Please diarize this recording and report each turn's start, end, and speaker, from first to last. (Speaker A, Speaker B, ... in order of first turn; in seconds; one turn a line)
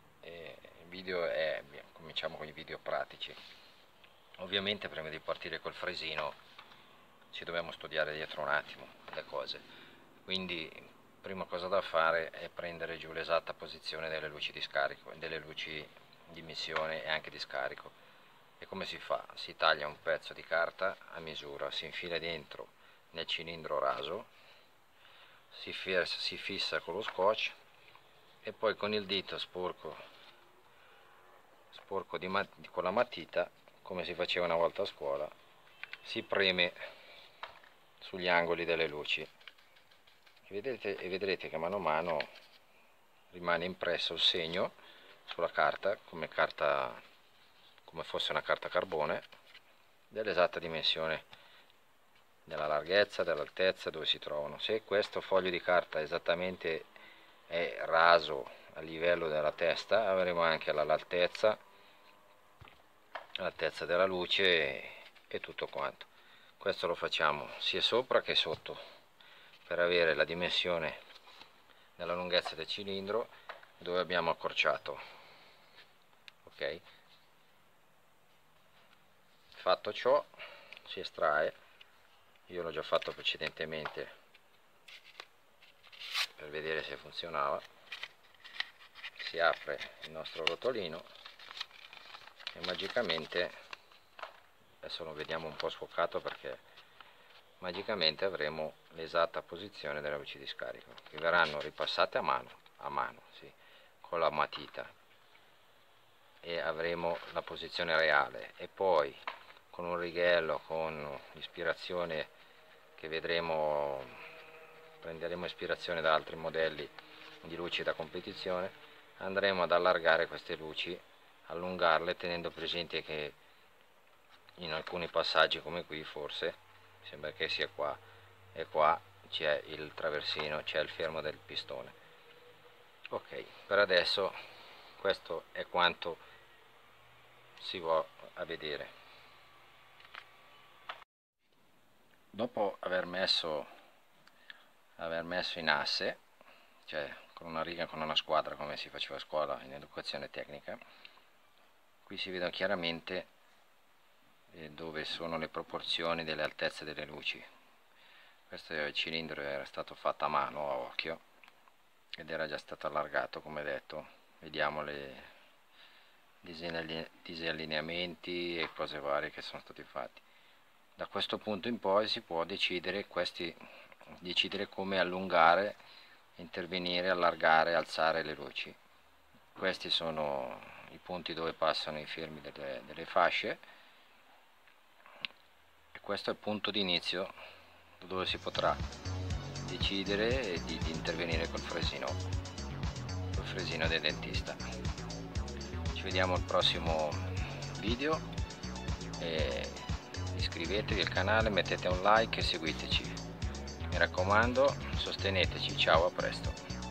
Speaker A: 0.2-3.4
Speaker A: 4.4-6.4
Speaker A: 7.3-9.6
Speaker A: 10.3-17.9
Speaker A: 18.6-24.3
Speaker A: 25.5-27.6
Speaker A: 28.4-30.0
Speaker A: 31.7-35.3
Speaker A: 36.0-36.8
Speaker A: 38.0-39.3
Speaker A: 40.5-42.3
Speaker A: 43.3-44.7
Speaker A: 45.2-47.0
Speaker A: 47.9-49.3
Speaker A: 50.1-51.2
Speaker A: 52.5-56.9
Speaker A: 57.5-61.6
Speaker A: 63.4-68.8
Speaker A: 69.7-71.0
Speaker A: 72.0-75.0
Speaker A: 76.4-76.8
Speaker A: 79.5-80.3
Speaker A: 80.8-81.5
Speaker A: 82.5-84.1
Speaker A: 86.4-87.7
Speaker A: 89.2-91.1
Speaker A: 92.5-93.5
Speaker A: 94.8-96.6
Speaker A: 97.6-104.9
Speaker A: 106.4-112.3
Speaker A: 113.0-114.2
Speaker A: 115.0-123.4
Speaker A: 124.6-128.0
Speaker A: 128.5-131.9
Speaker A: 133.1-134.4
Speaker A: 135.0-136.2
Speaker A: 137.6-138.9
Speaker A: 142.3-143.7
Speaker A: 145.0-146.2
Speaker A: 146.9-150.8
Speaker A: 152.1-153.3
Speaker A: 154.5-157.4
Speaker A: 158.5-161.2
Speaker A: 162.2-165.3
Speaker A: 166.4-170.2
Speaker A: 171.0-173.6
Speaker A: 174.2-175.8
Speaker A: 176.4-178.8
Speaker A: 179.6-183.6
Speaker A: 185.9-187.3
Speaker A: 188.0-188.8
Speaker A: 189.6-192.2
Speaker A: 193.3-194.6
Speaker A: 195.9-198.2
Speaker A: 199.2-199.8
Speaker A: 200.3-203.2
Speaker A: 203.9-206.6